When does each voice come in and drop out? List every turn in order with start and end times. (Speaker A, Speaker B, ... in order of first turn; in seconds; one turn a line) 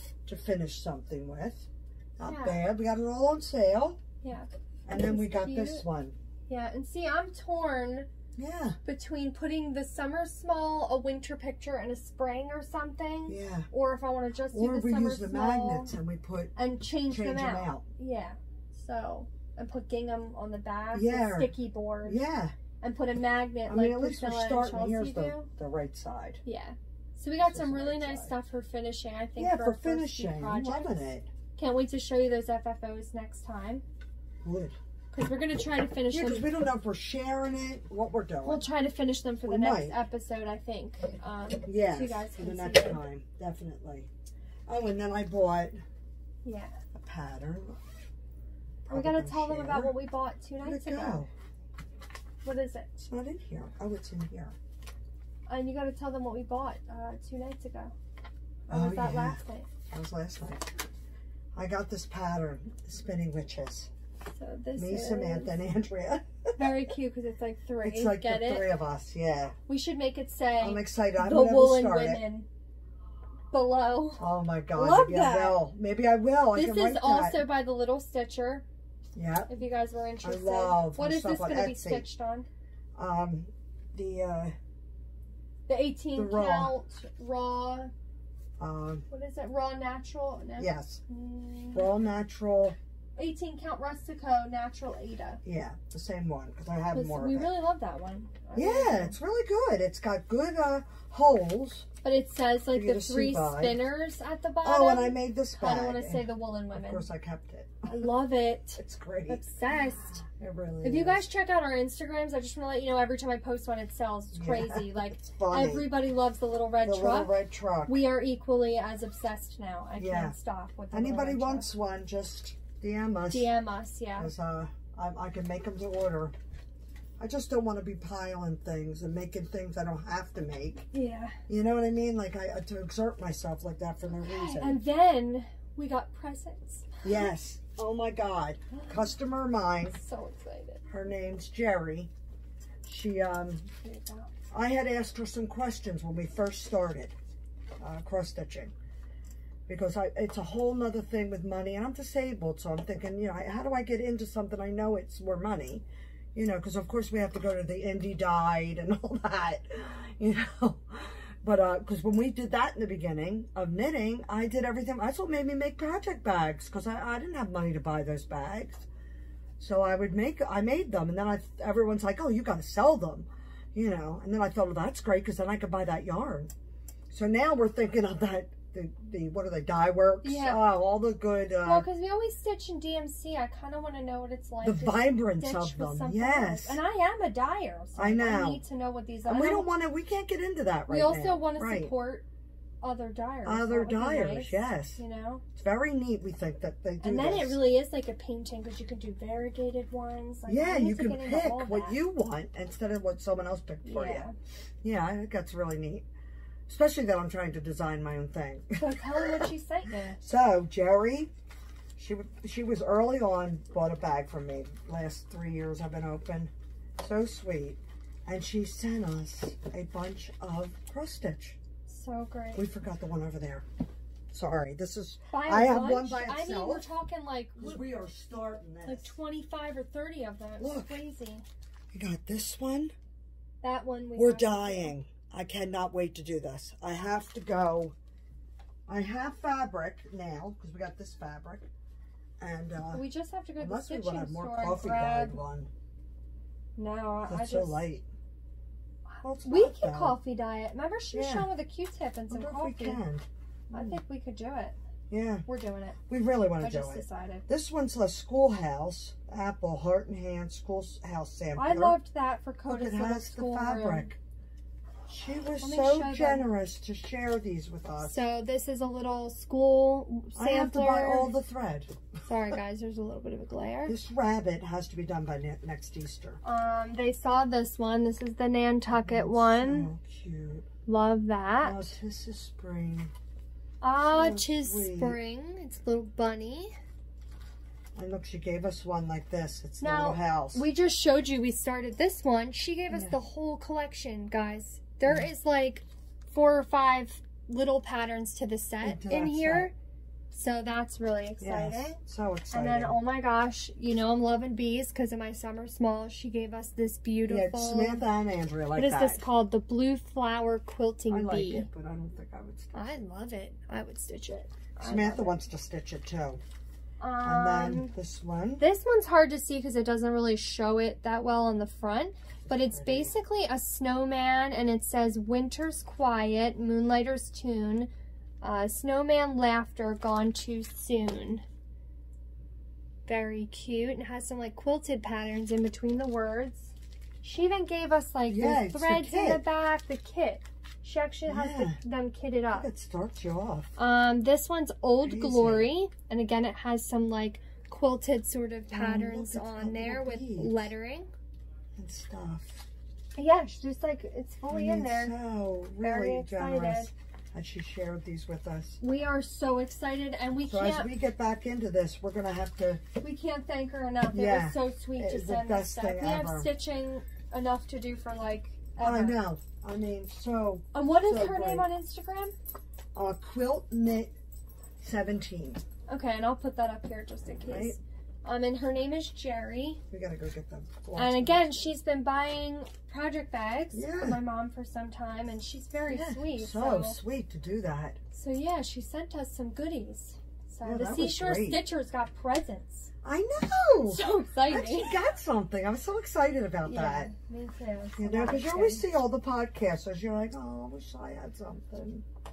Speaker A: 0.2-4.0
Speaker B: 2.2-2.6
Speaker B: 4.2-5.8
Speaker A: 4.9-6.2
Speaker B: 6.5-8.1
Speaker A: 8.4-8.8
Speaker B: 8.8-15.9
Speaker A: 13.3-13.7
Speaker A: 14.5-16.5
Speaker B: 16.6-22.2
Speaker A: 17.1-17.8
Speaker A: 20.9-21.5
Speaker A: 22.0-22.6
Speaker B: 22.8-25.5
Speaker A: 23.6-26.4
Speaker B: 26.4-31.0
Speaker A: 27.4-28.3
Speaker A: 29.4-31.3
Speaker B: 31.6-33.8
Speaker A: 34.4-34.8
Speaker B: 35.1-36.5
Speaker A: 36.1-38.6
Speaker B: 38.4-43.0
Speaker A: 39.4-40.0
Speaker A: 41.6-44.1
Speaker A: 44.7-45.8
Speaker B: 46.4-46.8
Speaker A: 46.9-47.8
Speaker A: 48.8-49.9
Speaker B: 48.9-51.2
Speaker A: 50.6-51.3
Speaker B: 52.4-52.9
Speaker A: 53.0-54.5
Speaker B: 55.5-57.9
Speaker A: 58.7-60.8
Speaker B: 58.7-59.7
Speaker A: 61.5-63.9
Speaker B: 64.3-65.5
Speaker A: 64.8-66.7
Speaker B: 66.6-68.7
Speaker A: 67.8-69.5
Speaker B: 69.7-72.5
Speaker A: 70.6-72.2
Speaker B: 73.5-75.6
Speaker A: 74.2-77.5
Speaker B: 76.5-78.6
Speaker A: 79.1-79.5
Speaker B: 79.5-82.5
Speaker A: 80.2-82.0
Speaker A: 83.0-84.5
Speaker B: 85.7-87.9
Speaker A: 86.1-86.8
Speaker A: 88.6-89.0
Speaker B: 89.1-91.9
Speaker A: 90.6-91.0
Speaker A: 91.7-92.8
Speaker B: 93.2-95.4
Speaker A: 95.4-97.5
Speaker B: 96.9-99.2
Speaker A: 98.5-101.9
Speaker B: 102.0-107.1
Speaker A: 102.7-103.8
Speaker A: 104.6-108.1
Speaker B: 107.9-110.2
Speaker A: 108.8-109.4
Speaker A: 110.2-111.3
Speaker B: 110.8-121.7
Speaker A: 114.3-115.9
Speaker A: 116.8-118.0
Speaker A: 120.0-120.3
Speaker A: 120.9-123.5
Speaker B: 123.3-124.3
Speaker A: 124.2-126.3
Speaker A: 127.2-130.9
Speaker B: 130.9-131.4
Speaker A: 131.5-134.8
Speaker B: 134.2-137.0
Speaker A: 137.0-140.0
Speaker B: 138.7-139.0
Speaker B: 139.9-140.8
Speaker A: 140.9-142.1
Speaker A: 142.8-143.7
Speaker B: 143.8-144.3
Speaker A: 144.5-147.1
Speaker A: 147.8-148.7
Speaker A: 149.7-168.8
Speaker A: 169.6-176.5
Speaker A: 177.1-181.9
Speaker B: 180.2-180.6
Speaker B: 181.6-189.7
Speaker A: 184.6-186.8
Speaker A: 187.9-188.6
Speaker A: 189.2-191.9
Speaker B: 190.9-192.2
Speaker B: 192.8-195.4
Speaker A: 193.4-195.0
Speaker A: 195.5-197.6
Speaker B: 197.0-202.0
Speaker A: 200.5-204.2
Speaker B: 203.8-204.3
Speaker A: 204.8-206.0
Speaker A: 206.7-209.5
Speaker B: 208.8-210.2
Speaker A: 210.2-211.3
Speaker A: 211.9-221.6
Speaker B: 221.9-222.6
Speaker A: 222.5-223.6
Speaker A: 224.3-226.9
Speaker B: 225.3-227.8
Speaker A: 227.6-229.1
Speaker B: 228.8-231.4
Speaker A: 230.6-231.0
Speaker A: 231.9-232.9
Speaker B: 233.6-234.9
Speaker A: 234.1-237.9
Speaker A: 238.9-241.7
Speaker A: 242.4-243.0
Speaker B: 242.9-245.4
Speaker A: 243.6-245.7
Speaker B: 246.8-247.9
Speaker A: 247.3-248.1
Speaker B: 249.1-253.0
Speaker A: 249.2-250.2
Speaker A: 251.1-251.5
Speaker A: 252.3-254.0
Speaker B: 253.7-254.8
Speaker A: 255.1-255.4
Speaker B: 255.5-256.0
Speaker A: 256.1-262.0
Speaker B: 256.6-257.4
Speaker B: 261.6-264.1
Speaker A: 262.7-264.2
Speaker A: 265.1-268.2
Speaker B: 265.6-266.5
Speaker B: 268.0-271.3
Speaker A: 270.3-272.0
Speaker B: 272.2-273.9
Speaker A: 273.9-276.4
Speaker B: 276.4-279.9
Speaker A: 278.9-280.6
Speaker B: 280.9-281.9
Speaker A: 281.6-283.1
Speaker B: 283.8-286.7
Speaker A: 284.1-285.2
Speaker A: 287.9-290.6
Speaker B: 289.8-299.7
Speaker A: 292.9-293.2
Speaker A: 298.8-299.7
Speaker B: 300.3-302.0
Speaker A: 301.4-303.0
Speaker B: 302.5-308.1
Speaker A: 307.3-309.2
Speaker B: 308.7-311.7
Speaker A: 311.1-313.0
Speaker B: 312.7-315.4
Speaker A: 314.8-316.4
Speaker B: 317.0-317.9
Speaker A: 317.2-318.6
Speaker B: 318.6-327.9
Speaker A: 322.4-323.1
Speaker B: 328.4-331.4
Speaker B: 333.1-342.7
Speaker A: 338.3-339.4
Speaker A: 341.3-341.8
Speaker A: 342.5-343.7
Speaker B: 343.8-351.1
Speaker A: 345.0-345.7
Speaker A: 348.7-350.7
Speaker A: 351.8-352.6
Speaker B: 353.2-355.1
Speaker A: 354.5-358.8
Speaker B: 355.8-356.9
Speaker B: 358.8-360.9
Speaker A: 360.5-362.8
Speaker B: 363.0-369.2
Speaker A: 364.1-366.5
Speaker A: 368.8-371.7
Speaker B: 370.7-372.3
Speaker A: 372.9-374.1
Speaker A: 374.8-375.6
Speaker B: 375.9-379.8
Speaker A: 377.4-377.8
Speaker A: 379.9-381.7
Speaker B: 380.9-387.0
Speaker A: 383.7-384.2
Speaker A: 385.9-388.0
Speaker B: 388.1-392.9
Speaker A: 390.6-391.6
Speaker A: 393.0-397.1
Speaker B: 393.9-395.0
Speaker B: 396.6-398.9
Speaker A: 398.0-402.0